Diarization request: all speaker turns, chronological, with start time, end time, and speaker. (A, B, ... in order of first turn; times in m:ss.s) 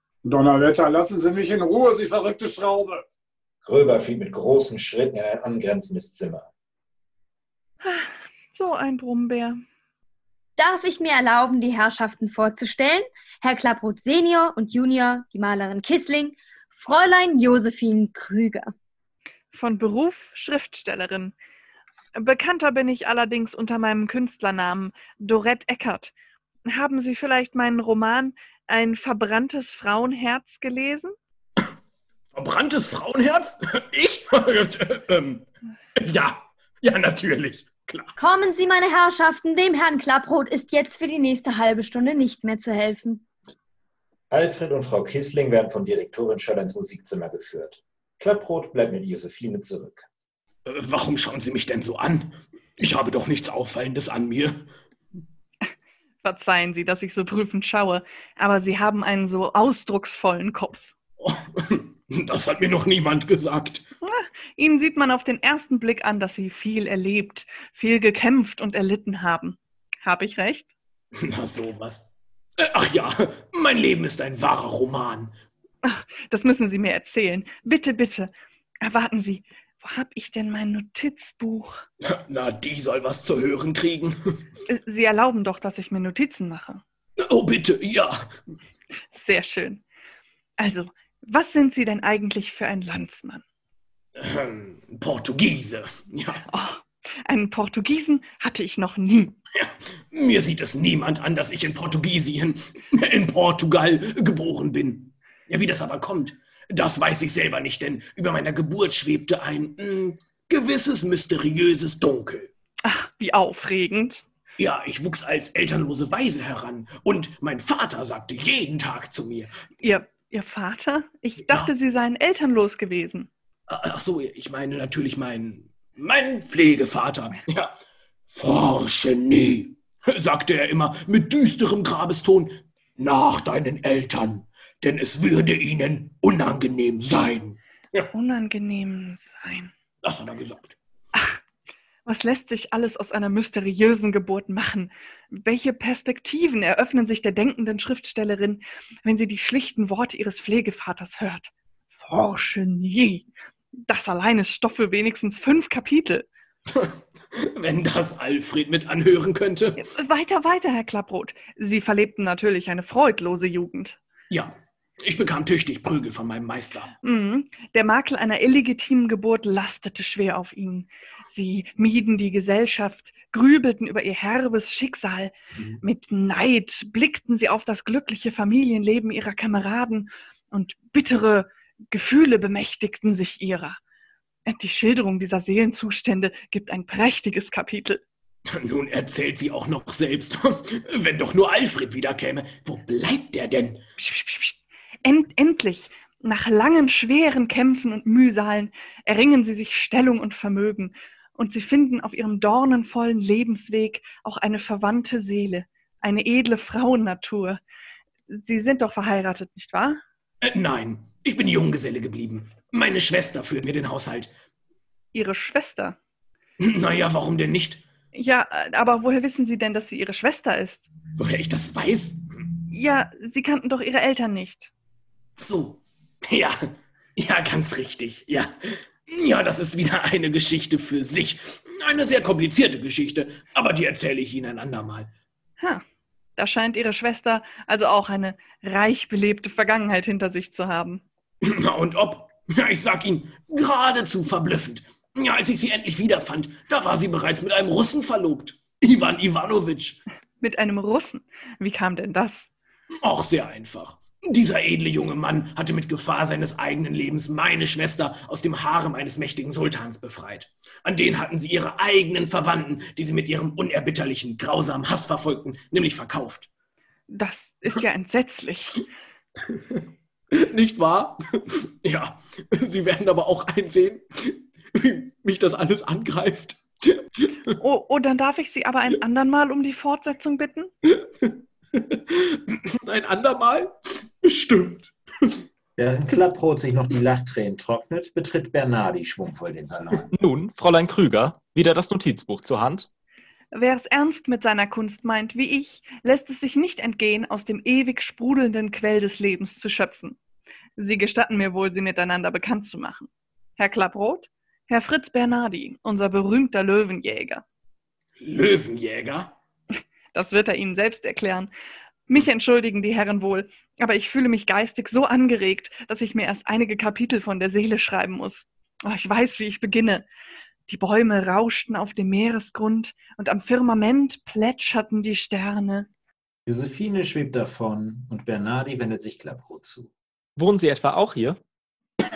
0:00.2-0:03.0 A
0:03.6-0:06.5 B
0:07.8-0:09.6 C
0:10.6-0:18.7 D
0:19.5-0:21.4 C
0:22.2-0:26.1 C
0:26.7-0:31.2 C
0:32.3-0:35.5 E
0:36.0-0:38.1 E
0:38.2-0:43.2 D
0:44.3-0:50.1 B
0:50.7-0:54.7 E
0:56.2-1:00.9 C
1:01.2-1:03.9 E
1:04.0-1:10.7 C
1:11.2-1:15.4 E
1:15.8-1:21.8 C
1:22.0-1:24.2 E
1:24.7-1:26.8 C
1:27.2-1:28.3 E
1:29.2-1:29.8 C
1:30.6-1:33.4 C
1:34.2-1:36.4 E
1:36.5-1:39.4 C
1:39.6-1:52.5 E
1:52.8-1:54.2 C
1:54.6-1:59.5 E
1:59.8-2:03.3 C
2:03.7-2:07.7 E
2:08.3-2:18.1 E
2:18.1-2:19.7 C
2:20.0-2:20.8 E
2:22.1-2:31.5 C
2:32.0-2:33.3 C
2:33.8-2:36.3 C
2:36.7-2:39.8 E
2:39.8-2:44.0 C
2:44.3-2:46.9 E
2:47.0-3:03.8 C
3:04.5-3:08.0 C
3:08.5-3:13.8 E
3:14.0-3:27.6 C
3:28.3-3:30.0 C
3:30.4-3:34.3 E
3:35.1-3:36.0 C
3:36.6-3:37.8 E
3:38.1-3:40.8 C
3:41.2-3:42.2 E
3:42.7-3:44.7 C
3:45.4-3:55.1 E
3:56.4-4:01.0 C
4:01.4-4:10.0 E
4:10.4-4:12.5 C
4:13.0-4:26.5 E
4:27.1-4:28.8 C
4:29.5-4:29.8 E
4:30.3-4:37.5 E
4:37.6-4:40.7 C
4:40.9-4:45.4 E
4:45.8-4:50.1 B
4:50.1-4:52.9 F
4:53.5-5:00.2 C
5:00.8-5:07.4 C
5:08.2-5:09.4 E
5:10.1-5:11.5 C
5:12.1-5:20.1 C
5:20.7-5:25.9 C
5:26.5-5:29.9 B
5:30.4-5:31.4 F